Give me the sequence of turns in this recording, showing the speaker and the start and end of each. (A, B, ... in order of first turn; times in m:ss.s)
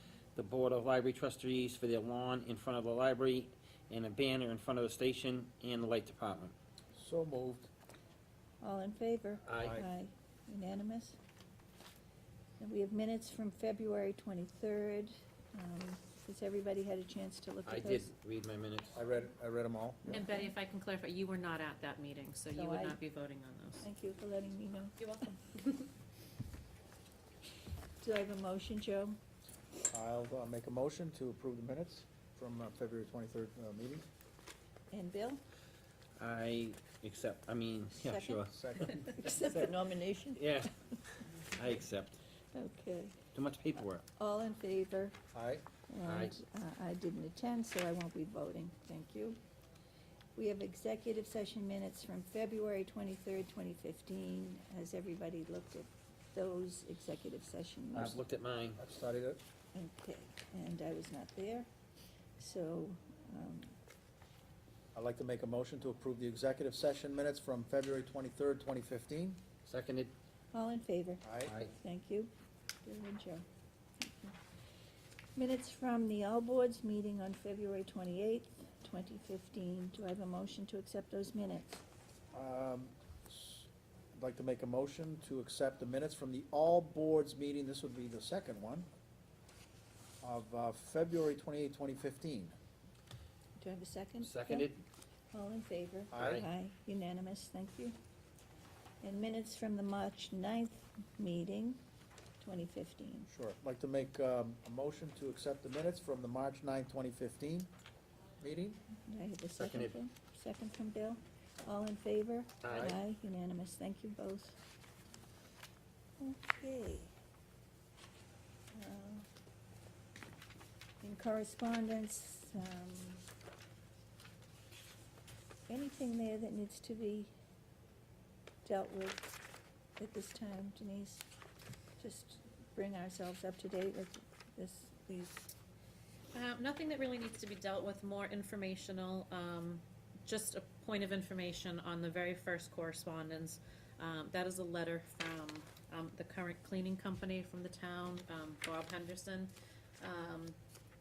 0:00.3-0:06.5 A
0:06.9-0:07.7 B
0:08.6-0:11.2 C
0:09.5-0:09.8 A
0:09.6-0:09.9 B
0:12.6-0:18.1 C
0:17.6-0:19.0 A
0:18.9-0:20.2 B
0:20.1-0:23.8 D
0:20.2-0:20.5 C
0:22.5-0:23.0 C
0:23.8-0:25.1 C
0:25.0-0:25.9 D
0:28.0-0:29.2 C
0:29.9-0:34.1 B
0:34.9-0:35.4 C
0:36.2-0:38.5 A
0:37.9-0:40.4 C
0:38.5-0:39.2 B
0:40.3-0:40.8 A
0:41.4-0:42.2 A
0:42.5-0:43.2 C
0:43.3-0:44.0 A
0:44.2-0:45.2 C
0:45.3-0:45.6 B
0:45.9-0:49.4 C
0:46.0-0:46.3 A
0:50.4-0:58.2 C
0:57.9-0:58.8 A
0:58.8-0:59.4 B
0:59.7-1:01.7 C
1:02.4-1:03.7 C
1:04.9-1:09.4 B
1:09.6-1:10.1 A
1:10.5-1:12.3 C
1:11.2-1:11.5 B
1:11.4-1:11.7 A
1:12.8-1:13.4 C
1:14.0-1:14.4 C
1:15.4-1:21.8 C
1:22.3-1:28.9 B
1:30.2-1:32.6 B
1:33.6-1:34.8 C
1:34.2-1:34.8 A
1:35.3-1:38.0 C
1:36.1-1:36.4 B
1:36.2-1:36.5 A
1:39.0-1:41.8 C
1:42.4-1:43.3 C
1:43.3-1:47.7 B
1:48.4-1:48.8 B
1:49.0-1:54.6 C
1:49.5-1:50.0 A
1:52.6-1:53.0 A
1:52.7-1:53.0 B
1:56.2-1:57.1 C
1:58.7-1:59.2 C
2:01.0-2:03.2 C
2:05.7-2:07.3 C
2:08.6-2:09.4 C
2:10.0-2:11.3 C
2:12.0-2:15.5 C
2:16.3-2:30.6 D